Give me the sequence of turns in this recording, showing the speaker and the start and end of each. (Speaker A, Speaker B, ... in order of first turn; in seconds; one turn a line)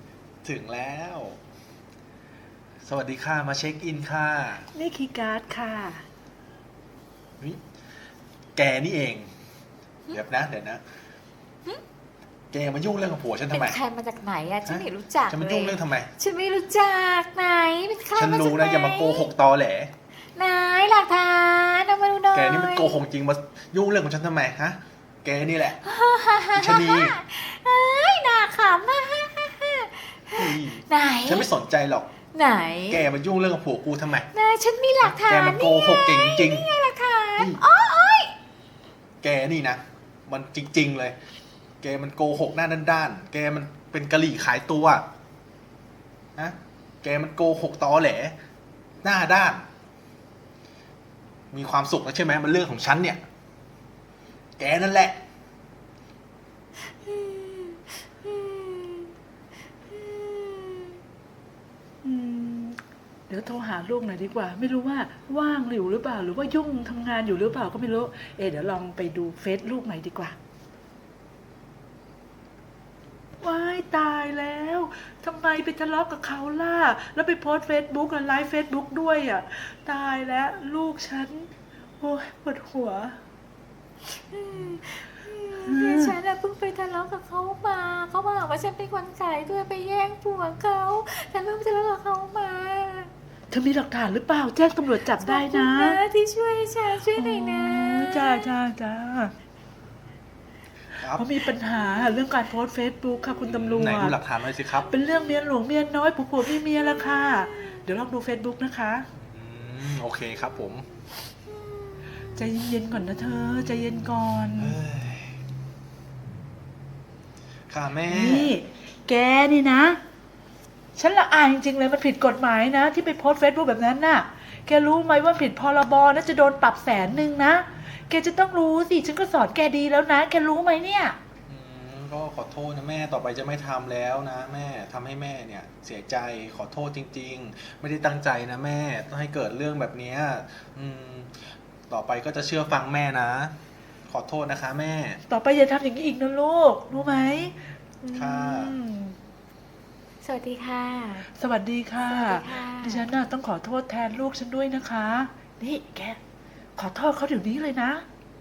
Speaker A: 0.4-1.4
Speaker A: 2.8-4.7
Speaker B: 4.7-6.0
Speaker A: 8.6-9.3
Speaker A: 10.1-10.8
Speaker A: 12.5-13.8
Speaker C: 13.5-19.3
Speaker A: 14.7-16.1
Speaker A: 18.1-19.9
Speaker C: 20.3-23.0
Speaker A: 22.3-25.8
Speaker C: 25.8-31.5
Speaker A: 26.5-27.2
Speaker A: 30.3-32.1
Speaker C: 32.3-33.0
Speaker A: 32.9-34.3
Speaker C: 34.3-38.3
Speaker A: 35.0-36.7
Speaker A: 37.4-37.6
Speaker A: 39.2-41.2
Speaker A: 41.8-45.0
Speaker A: 46.4-48.4
Speaker A: 49.0-49.7
Speaker A: 51.5-53.2
Speaker A: 54.6-55.2
Speaker C: 56.9-59.1
Speaker C: 59.9-61.0
Speaker B: 62.0-70.3
Speaker B: 73.4-83.2
Speaker C: 84.1-93.1
Speaker B: 85.6-86.1
Speaker B: 93.5-96.0
Speaker C: 95.1-98.6
Speaker B: 97.1-99.3
Speaker A: 101.0-101.3
Speaker B: 101.1-104.2
Speaker A: 103.4-104.9
Speaker B: 104.8-109.1
Speaker C: 106.5-107.8
Speaker A: 109.2-110.9
Speaker C: 111.5-112.4
Speaker B: 112.2-114.8
Speaker A: 114.6-115.4
Speaker A: 117.7-118.5
Speaker B: 118.1-120.0
Speaker B: 120.9-131.2
Speaker A: 131.5-143.6
Speaker A: 144.1-145.2
Speaker B: 145.3-147.7
Speaker A: 146.9-148.8
Speaker C: 148.0-148.7
Speaker B: 148.5-149.2
Speaker C: 150.2-151.3
Speaker B: 151.3-156.2
Speaker C: 152.1-153.1
Speaker B: 156.8-158.0